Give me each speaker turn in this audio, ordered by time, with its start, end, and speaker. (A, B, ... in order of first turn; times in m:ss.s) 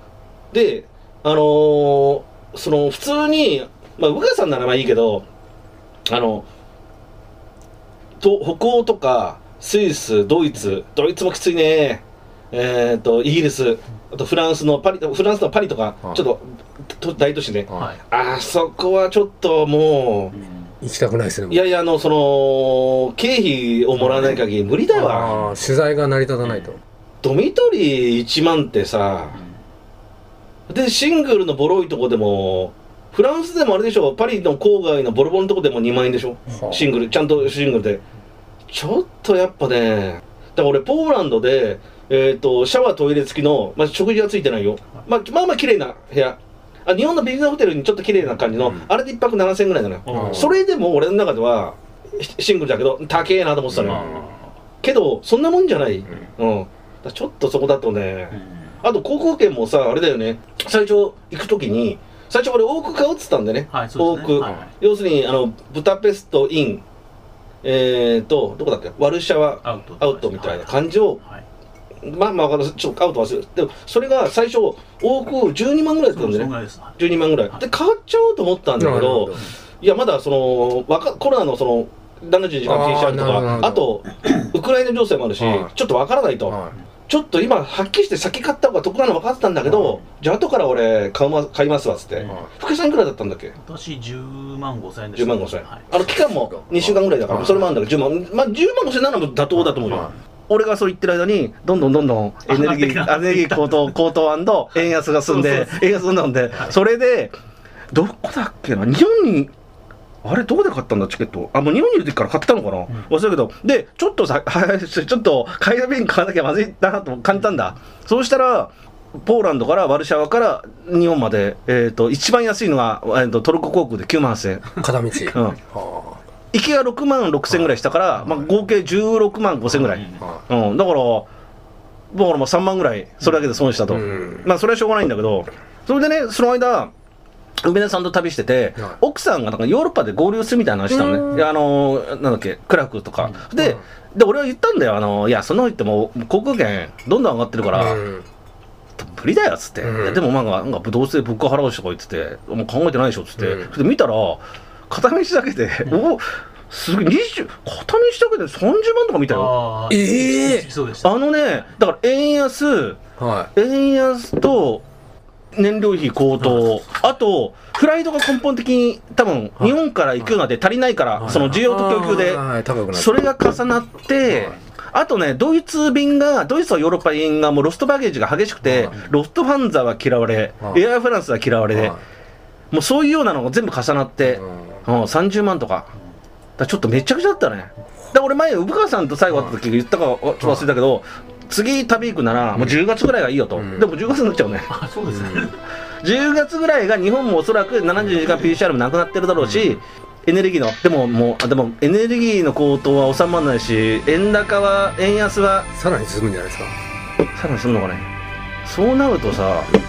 0:00.5-0:05.3 A
0:06.1-0:06.5 A
0:08.2-0:20.3 A
0:17.7-0:18.0 B
0:20.3-0:20.7 B
0:20.8-0:21.6 C
0:21.5-0:25.3 A
0:24.1-0:24.4 B
0:25.0-0:26.8 C
0:25.0-0:25.6 B
0:26.4-0:26.7 B
0:27.2-0:29.4 A
0:29.3-0:29.6 B
0:30.7-0:38.0 A
0:36.5-0:36.8 C
0:38.7-0:54.1 A
0:48.2-0:48.5 B
0:50.1-0:50.5 B
0:50.1-0:50.5 C
0:53.8-0:54.6 B
0:53.8-0:54.1 C
0:54.8-1:06.8 A
0:58.3-0:58.8 B
1:03.7-1:04.7 B
1:07.6-1:11.2 A
1:09.6-1:11.5 B
1:12.0-1:26.6 A
1:16.1-1:17.6 B
1:18.8-1:19.4 C
1:22.6-1:23.8 C
1:25.4-1:25.7 C
1:26.5-1:26.7 C
1:27.1-1:33.5 A
1:32.2-1:32.5 B
1:33.6-1:35.9 B
1:35.2-1:47.3 A
1:36.0-1:37.7 C
1:39.6-1:40.1 C
1:42.5-1:43.9 B
1:45.3-1:46.0 B
1:47.9-1:49.5 A
1:50.2-2:04.8 A
2:04.8-2:06.2 C
2:05.3-2:05.6 A
2:06.5-2:11.3 A
2:09.8-2:10.2 B
2:12.1-2:16.9 A
2:13.9-2:14.5 C
2:17.6-2:28.0 A
2:20.9-2:21.4 C
2:23.6-2:23.8 C
2:27.8-2:28.3 C
2:29.0-2:39.5 A
2:29.8-2:30.2 C
2:33.4-2:33.7 C
2:39.3-2:41.7 B
2:39.9-2:40.7 C
2:41.0-2:43.0 A
2:43.2-2:43.5 C
2:43.6-2:44.8 A
2:45.5-3:02.0 A
2:51.2-2:53.2 C
2:54.3-2:54.5 C
2:58.6-2:59.0 C
3:01.7-3:02.0 C
3:02.7-3:05.9 A
3:04.3-3:04.8 C
3:06.6-3:14.7 A
3:13.6-3:13.9 C
3:14.7-3:15.6 B
3:15.1-3:15.5 C
3:16.0-3:25.7 A
3:25.7-3:26.8 C
3:27.3-3:28.1 A
3:28.6-3:29.7 A